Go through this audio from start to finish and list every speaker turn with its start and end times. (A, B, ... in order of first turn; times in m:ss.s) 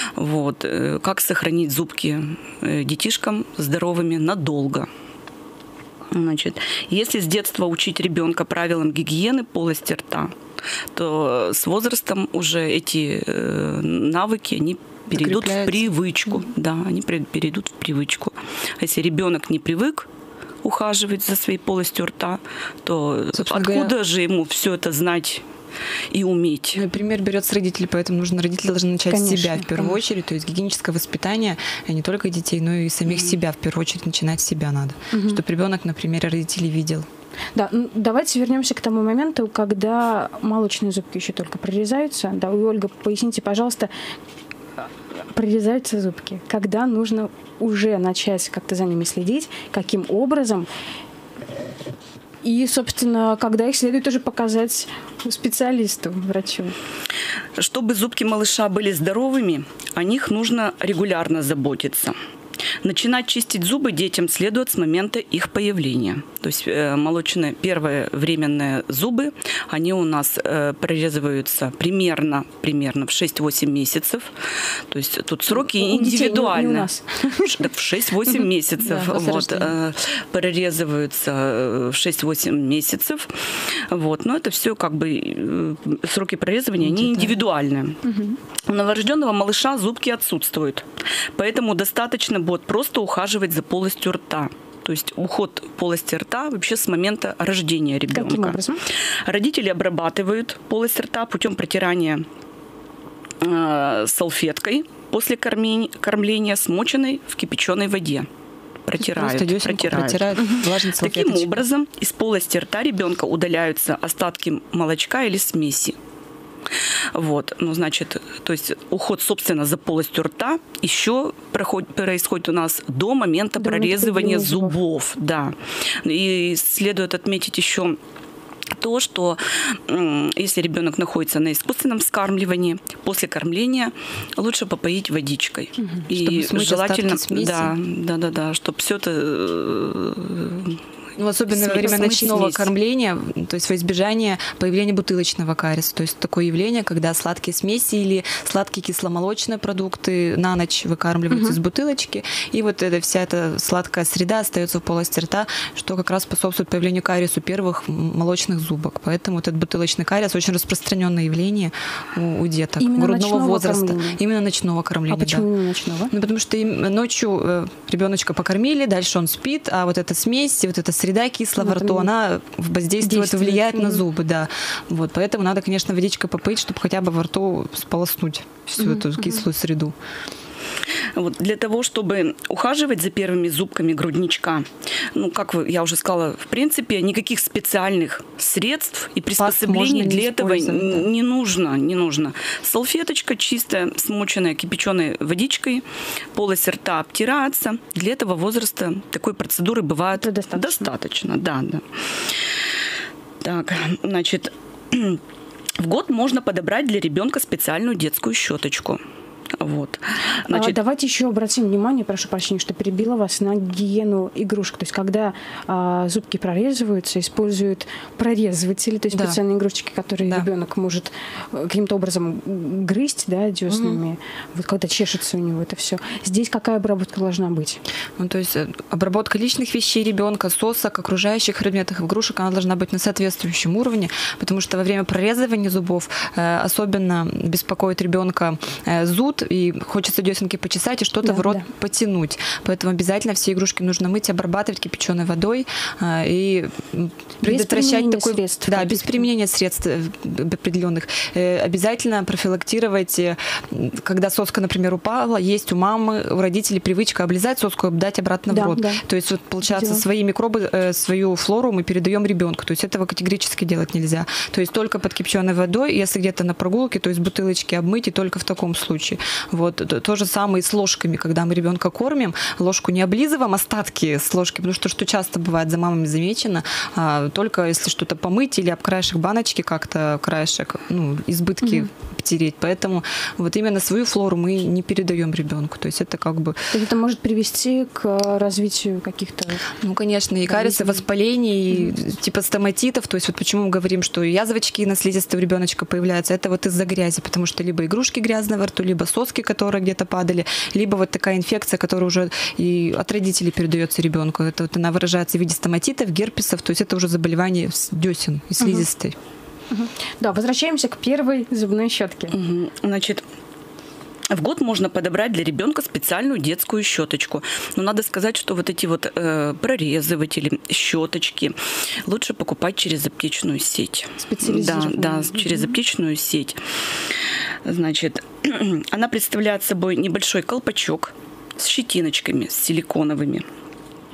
0:00.2-0:04.9 A
0:06.1-0:10.3 A
0:10.9-0:20.1 A
0:15.1-0:15.9 B
0:20.6-0:25.4 A
0:23.3-0:23.9 B
0:26.1-0:26.8 A
0:26.7-0:37.1 B
0:29.1-0:29.9 C
0:35.1-0:35.4 C
0:37.5-0:43.9 C
0:45.3-0:50.7 C
0:52.4-0:56.7 C
0:57.6-1:02.1 A
1:02.8-1:28.1 A
1:15.5-1:17.7 C
1:18.8-1:19.7 B
1:26.8-1:27.4 B
1:28.0-1:28.4 C
1:28.7-1:38.6 A
1:38.1-1:38.8 C
1:39.2-1:42.2 A
1:43.4-1:48.3 A
1:48.8-1:56.0 A
1:49.0-1:51.6 B
1:57.1-2:08.0 A
2:03.6-2:04.8 C
2:08.7-2:20.8 A
2:16.1-2:17.7 B
2:21.2-2:45.4 B
2:21.5-2:22.7 A
2:31.3-2:31.6 C
2:42.8-2:44.2 C
2:45.1-2:46.1 C
2:46.1-2:59.9 B
2:51.6-2:52.1 C
2:53.0-2:54.0 C
2:58.8-2:59.4 C
3:01.1-3:22.4 A
3:09.3-3:11.1 B
3:20.2-3:20.9 C
3:23.4-3:25.2 A
3:25.8-3:29.0 A
3:29.5-3:30.8 A
3:30.5-3:47.8 C
3:39.1-3:39.4 B
3:43.7-3:44.0 B
3:48.2-4:46.7 B
4:01.2-4:01.6 C
4:07.4-4:09.2 C
4:18.5-4:19.0 C
4:19.6-4:20.0 C
4:46.7-4:49.6 C
4:49.8-5:09.2 B
4:50.5-4:51.0 C
5:09.7-5:12.3 C
5:12.3-5:13.2 A
5:14.3-5:27.1 A
5:24.2-5:25.7 C
5:27.6-5:33.4 A